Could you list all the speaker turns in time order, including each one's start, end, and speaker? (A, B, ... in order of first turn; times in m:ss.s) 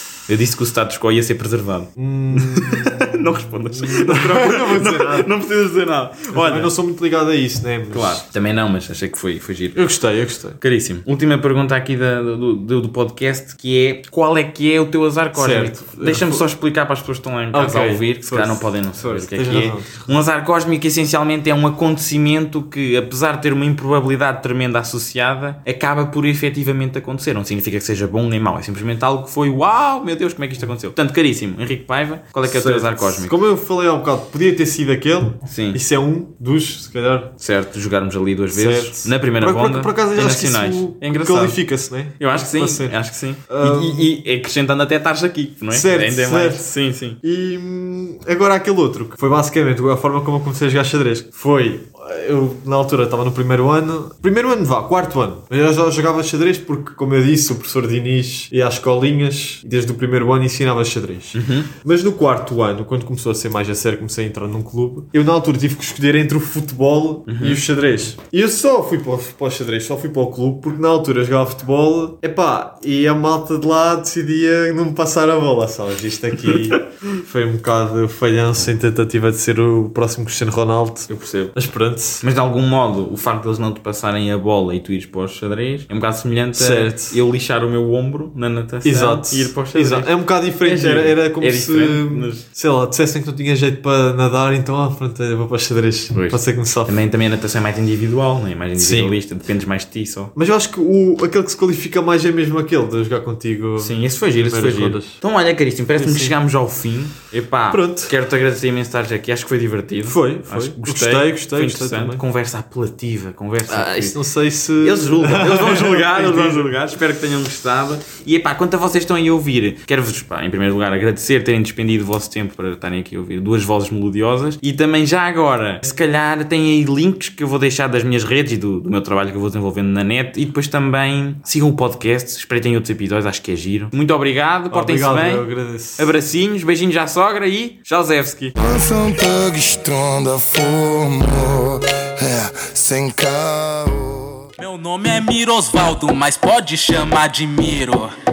0:00.3-0:06.7 A
0:02.0-0:05.3 B
0:06.3-0:08.2 B
0:07.9-0:09.8 A
0:09.7-0:10.6 B
0:10.6-0:33.3 A
0:15.3-0:16.4 B
0:17.5-0:20.0 B
0:32.4-0:37.3 B
0:35.4-0:35.8 A
0:37.4-0:41.6 A
0:38.5-0:43.0 B
0:42.2-0:47.2 A
0:43.5-0:44.1 B
0:45.7-1:22.2 B
1:01.3-1:01.7 A
1:07.3-1:07.6 A
1:16.4-1:16.8 A
1:21.1-1:21.5 A
1:22.2-1:30.1 A
1:26.5-1:27.2 B
1:28.8-1:37.0 B
1:30.6-1:32.4 A
1:36.1-1:40.3 A
1:38.8-1:39.2 B
1:40.3-1:45.2 B
1:43.8-1:54.2 A
1:46.0-1:46.4 B
1:47.7-1:48.1 B
1:50.0-1:52.2 B
1:53.7-1:56.8 B
1:54.8-2:15.4 A
2:14.7-2:16.1 B
2:16.0-2:18.5 A
2:18.6-2:24.5 C
2:24.6-2:28.1 D